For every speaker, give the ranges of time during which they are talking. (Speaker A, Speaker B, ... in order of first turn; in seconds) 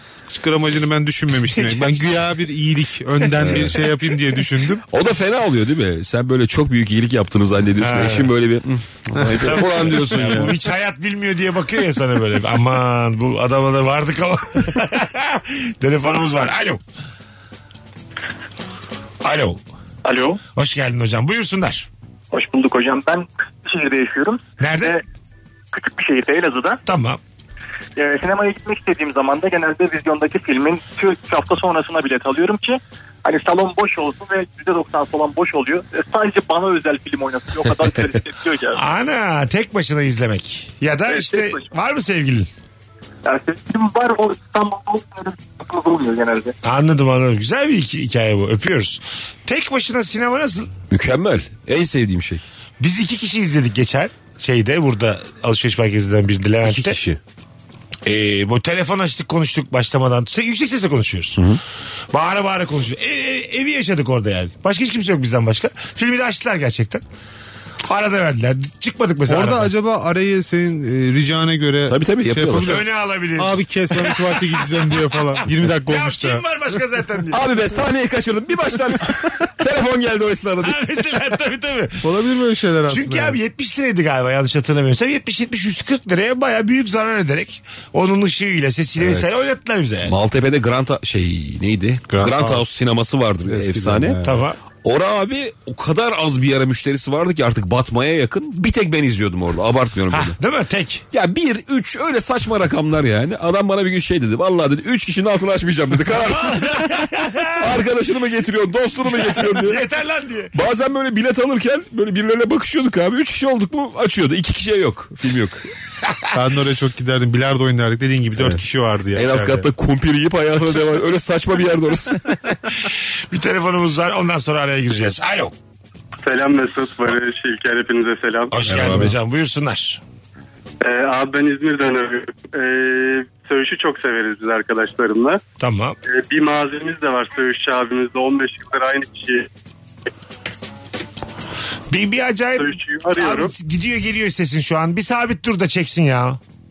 Speaker A: 0.3-4.8, 9.9-10.5, 56.8-57.1, 69.3-76.4, 82.0-83.4, 92.1-92.6, 93.5-94.4, 116.3-119.7
Speaker B: 3.4-3.8, 4.9-10.5, 50.9-52.4, 71.9-72.8, 77.3-80.8, 89.0-89.5, 90.0-94.2, 94.8-100.4, 101.1-106.9, 107.6-109.8, 110.5-115.6, 119.1-122.2, 128.6-129.1
Speaker C: 7.8-8.3, 9.4-16.8, 19.2-19.6, 20.6-21.9, 24.6-25.0, 26.9-27.2, 38.7-42.5, 46.6-50.7, 52.8-57.0, 58.0-61.4, 62.1-67.0, 67.8-69.7, 72.7-77.5, 80.6-82.1, 82.9-90.2, 94.2-94.6, 100.1-101.0, 106.1-107.7, 109.1-110.5, 122.9-125.5, 128.5-130.0, 135.6-136.0, 141.9-146.4
Speaker D: 20.1-20.4, 22.3-25.0, 25.7-26.8, 28.0-38.8, 41.1-41.7, 43.2-46.5
Speaker E: 126.2-128.6, 130.8-135.4, 136.1-139.5, 142.6-143.5